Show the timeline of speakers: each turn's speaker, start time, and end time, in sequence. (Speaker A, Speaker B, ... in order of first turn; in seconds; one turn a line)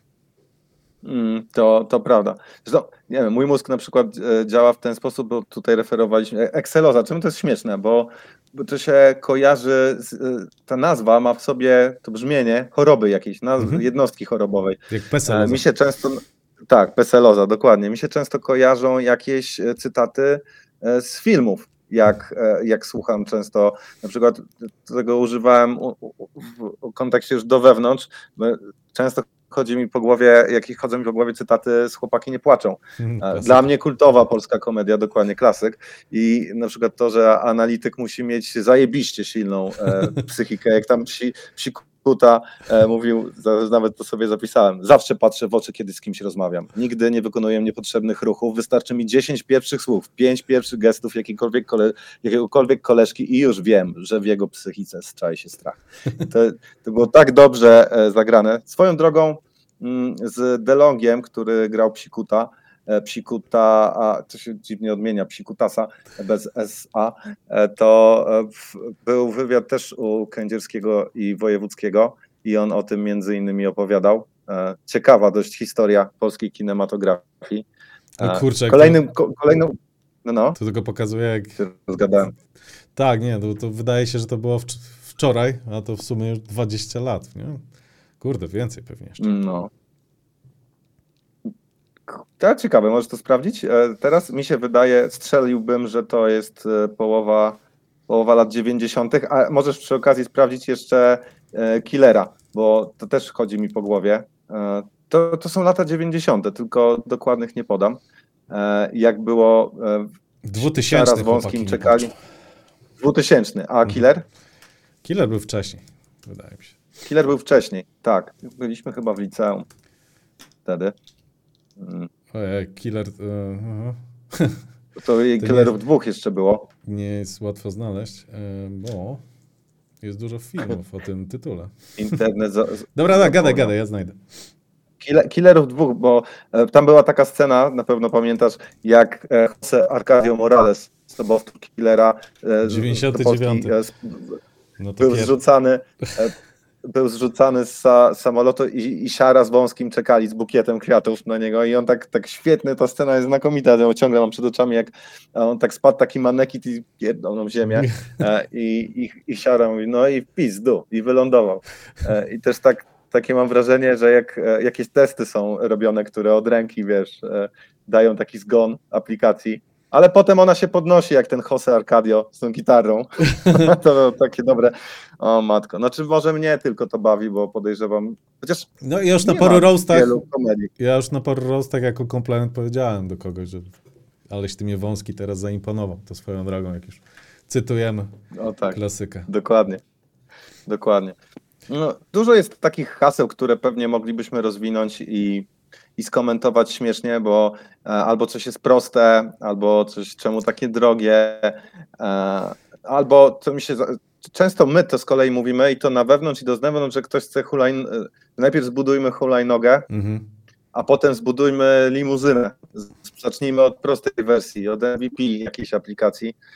Speaker A: 1.0-77.7
Speaker B: 14.9-15.6
Speaker B: 33.0-33.6
Speaker A: 78.2-80.6
Speaker B: 78.2-79.0
Speaker B: 80.6-81.6
Speaker A: 81.6-82.3
Speaker B: 83.0-87.6
Speaker B: 88.2-89.3
Speaker A: 89.2-89.7
Speaker A: 92.1-112.1
Speaker B: 110.4-112.1
Speaker A: 113.0-114.2
Speaker B: 115.0-116.8
Speaker A: 117.0-119.7
Speaker A: 120.6-120.9
Speaker A: 121.8-122.1
Speaker B: 122.3-124.6
Speaker A: 125.0-126.7
Speaker B: 125.4-125.7
Speaker B: 126.8-129.2
Speaker B: 130.0-132.1
Speaker A: 132.0-133.7
Speaker B: 132.9-134.2
Speaker A: 135.0-144.4
Speaker B: 142.6-143.7
Speaker B: 144.8-145.3
Speaker A: 145.0-146.3
Speaker A: 146.8-178.7
Speaker B: 173.4-173.7
Speaker B: 178.8-180.2
Speaker A: 179.2-180.7
Speaker B: 180.8-183.7
Speaker B: 184.3-188.1
Speaker A: 188.3-189.8
Speaker B: 188.7-189.3
Speaker A: 190.7-191.2
Speaker A: 191.7-209.9
Speaker B: 209.9-210.2
Speaker A: 210.7-216.3